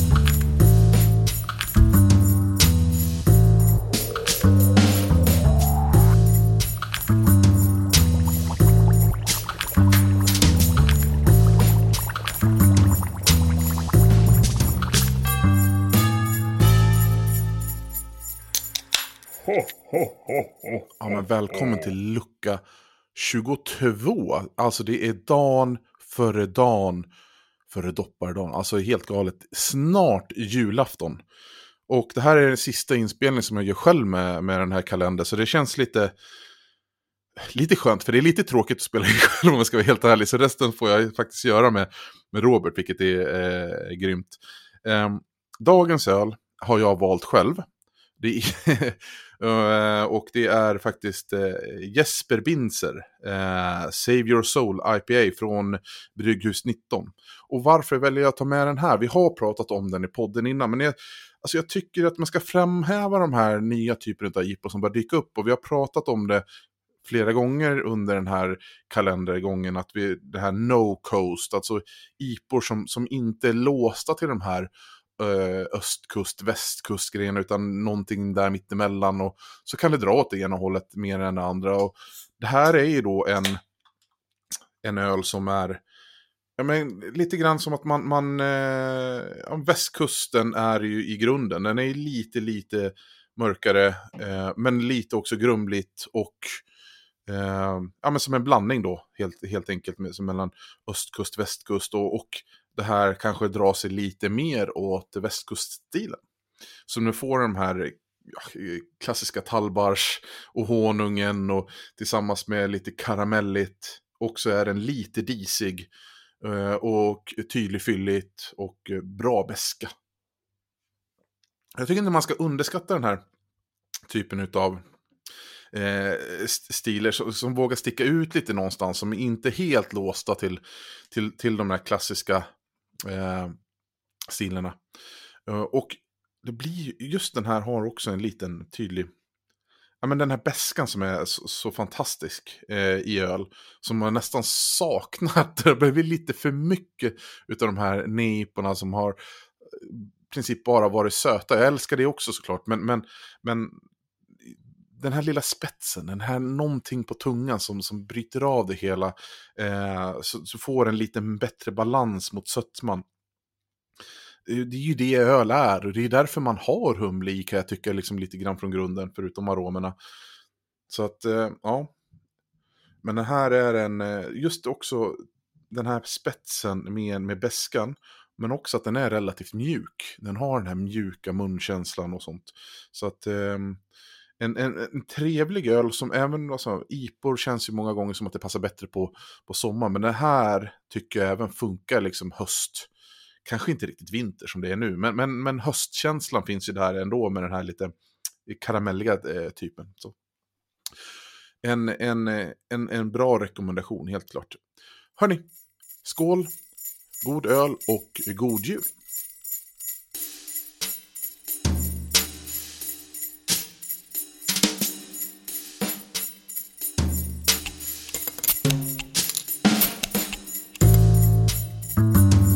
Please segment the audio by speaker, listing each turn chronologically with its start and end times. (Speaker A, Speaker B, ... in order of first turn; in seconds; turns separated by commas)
Speaker A: 21.0-22.6, Speaker A: 23.1-27.1, Speaker A: 27.7-31.2, Speaker A: 31.9-36.1, Speaker A: 37.4-47.6, Speaker A: 48.2-66.4, Speaker A: 67.0-83.6, Speaker A: 84.8-85.8, Speaker A: 86.6-96.6, Speaker A: 97.3-106.2, Speaker A: 106.9-115.9, Speaker A: 116.4-119.9, Speaker A: 121.8-123.2, Speaker A: 124.1-124.8, Speaker A: 125.7-132.5, Speaker A: 133.0-133.5, Speaker A: 134.3-134.8, Speaker A: 135.5-139.1, Speaker A: 140.0-153.8, Speaker A: 154.4-163.0, Speaker A: 164.4-169.9, Speaker A: 170.9-171.9, Speaker A: 173.0-175.2, Speaker A: 175.7-183.8, Speaker A: 184.4-192.9, Speaker A: 193.4-197.9, Speaker A: 198.4-200.1, Speaker A: 201.6-204.6, Speaker A: 205.2-205.4, Speaker A: 206.0-206.5, Speaker A: 207.2-208.9